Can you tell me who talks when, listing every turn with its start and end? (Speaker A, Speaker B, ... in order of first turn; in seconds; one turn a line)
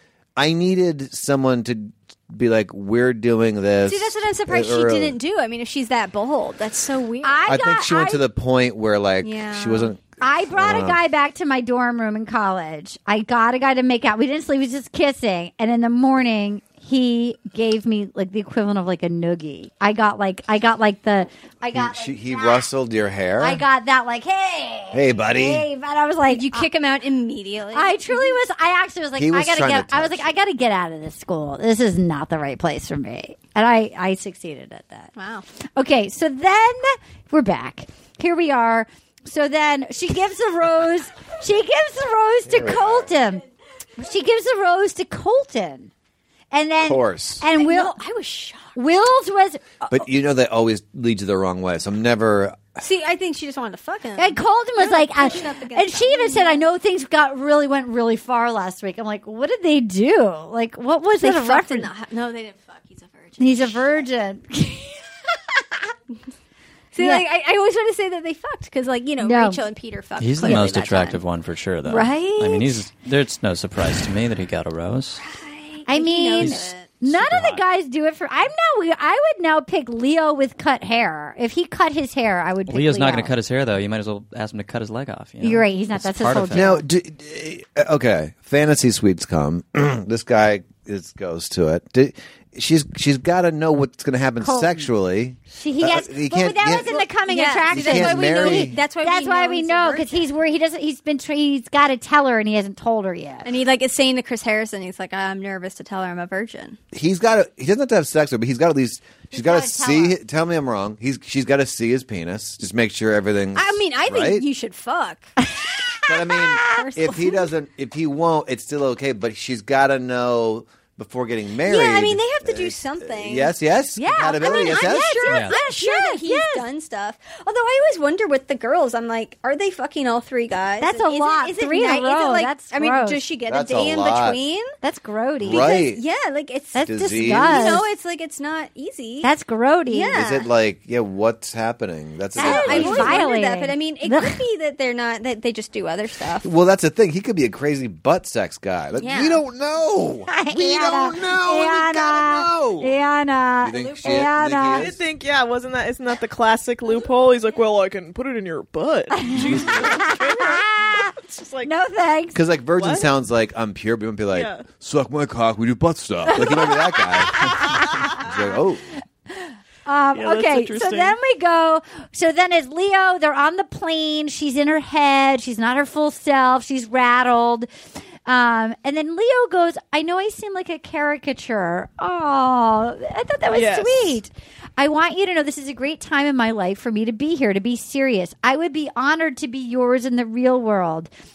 Speaker A: 0.3-5.2
Speaker B: 3.8-7.5
Speaker C: 7.2-8.2
Speaker A: 7.5-11.0
Speaker B: 9.2-9.9
Speaker C: 10.2-22.7
Speaker A: 21.7-23.6
Speaker C: 23.4-26.7
Speaker A: 24.9-25.6
Speaker B: 26.2-28.4
Speaker C: 27.7-35.1
Speaker A: 29.2-30.3
Speaker B: 35.1-35.4
Speaker C: 35.8-43.4
Speaker A: 42.5-43.1
Speaker C: 44.0-45.9
Speaker C: 46.5-48.0
Speaker A: 46.8-47.4
Speaker B: 47.5-48.8
Speaker C: 48.7-50.0
Speaker A: 49.9-52.8
Speaker B: 52.8-56.6
Speaker C: 54.2-61.9
Speaker B: 61.2-64.0
Speaker C: 63.4-65.0
Speaker B: 66.9-71.2
Speaker C: 67.0-67.2
Speaker C: 69.2-69.6
Speaker D: 70.2-75.2
Speaker B: 71.8-72.8
Speaker B: 75.2-77.0
Speaker C: 75.9-83.3
Speaker D: 76.4-77.6
Speaker D: 82.7-86.8
Speaker C: 85.4-86.8
Speaker A: 86.5-97.1
Speaker C: 94.4-94.8
Speaker C: 95.5-103.5
Speaker B: 97.2-100.3
Speaker A: 97.7-98.8
Speaker B: 103.4-106.8
Speaker A: 106.9-114.5
Speaker C: 109.3-110.2
Speaker B: 113.5-115.3
Speaker C: 115.4-116.9
Speaker A: 116.0-125.3
Speaker B: 116.7-117.4
Speaker B: 121.6-123.5
Speaker C: 124.0-126.7
Speaker B: 124.2-134.7
Speaker D: 125.3-125.5
Speaker C: 130.8-133.2
Speaker A: 133.5-134.4
Speaker C: 134.8-135.8
Speaker A: 135.4-136.0
Speaker B: 135.5-139.3
Speaker C: 136.7-137.8
Speaker A: 136.8-137.7
Speaker C: 139.2-140.1
Speaker B: 139.8-140.5
Speaker A: 140.1-143.2
Speaker C: 142.4-144.4
Speaker B: 142.4-146.5
Speaker A: 146.4-152.9
Speaker B: 148.9-149.4
Speaker C: 150.3-154.8
Speaker A: 153.6-155.0
Speaker B: 153.7-154.3
Speaker E: 154.8-161.7
Speaker C: 159.1-161.1
Speaker C: 161.6-162.4
Speaker A: 162.3-168.8
Speaker E: 162.8-163.1
Speaker E: 164.3-164.7
Speaker C: 166.3-167.9
Speaker C: 169.3-177.7
Speaker E: 170.1-171.2
Speaker C: 178.2-191.1
Speaker E: 183.5-184.2